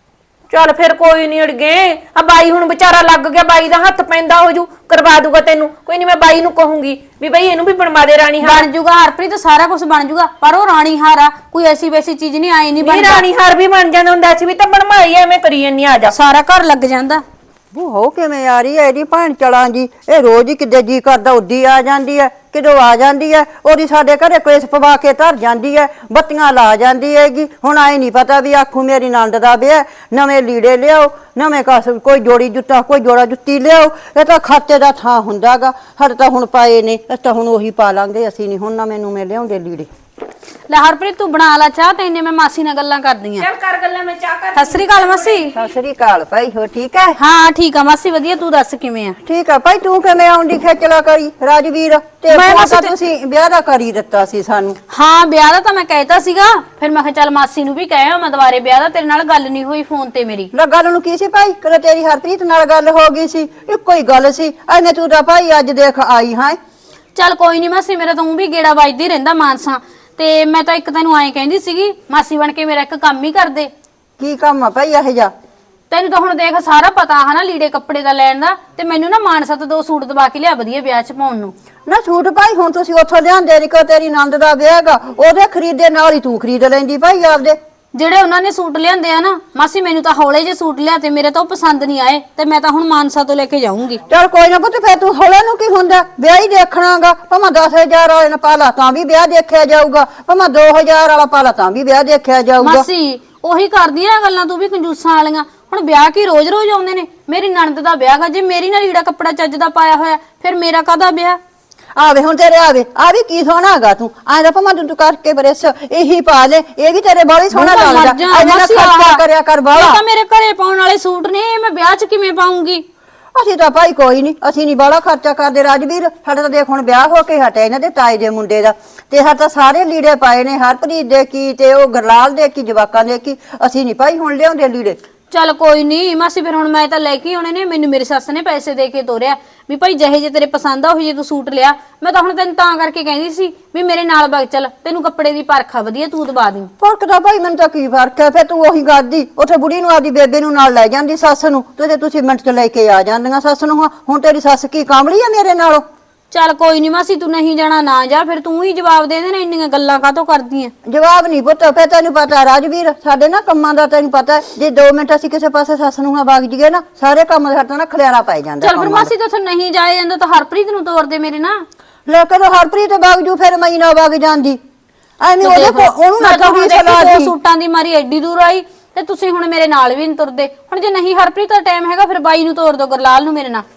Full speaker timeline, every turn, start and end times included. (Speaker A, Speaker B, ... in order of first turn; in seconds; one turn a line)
Speaker A: 0.5-8.7
Speaker B: 8.4-13.2
Speaker A: 12.8-16.1
Speaker B: 16.1-17.2
Speaker C: 17.7-39.9
Speaker B: 40.7-43.5
Speaker A: 43.4-45.6
Speaker B: 44.6-45.5
Speaker C: 45.5-47.2
Speaker B: 47.2-49.2
Speaker C: 49.2-54.8
Speaker B: 52.3-52.9
Speaker B: 54.9-60.5
Speaker C: 60.5-66.6
Speaker B: 67.2-73.7
Speaker C: 74.2-75.3
Speaker B: 75.9-81.5
Speaker C: 81.9-87.6
Speaker B: 87.9-94.0
Speaker C: 94.1-102.9
Speaker B: 102.6-111.4
Speaker C: 112.0-120.0
Speaker B: 117.5-119.2
Speaker B: 119.7-122.8
Speaker C: 123.3-135.0
Speaker B: 135.3-146.7
Speaker C: 146.8-155.8
Speaker B: 156.3-160.7
Speaker C: 160.8-169.1
Speaker B: 168.6-171.7
Speaker C: 172.1-174.6
Speaker C: 175.2-177.3
Speaker B: 175.4-183.7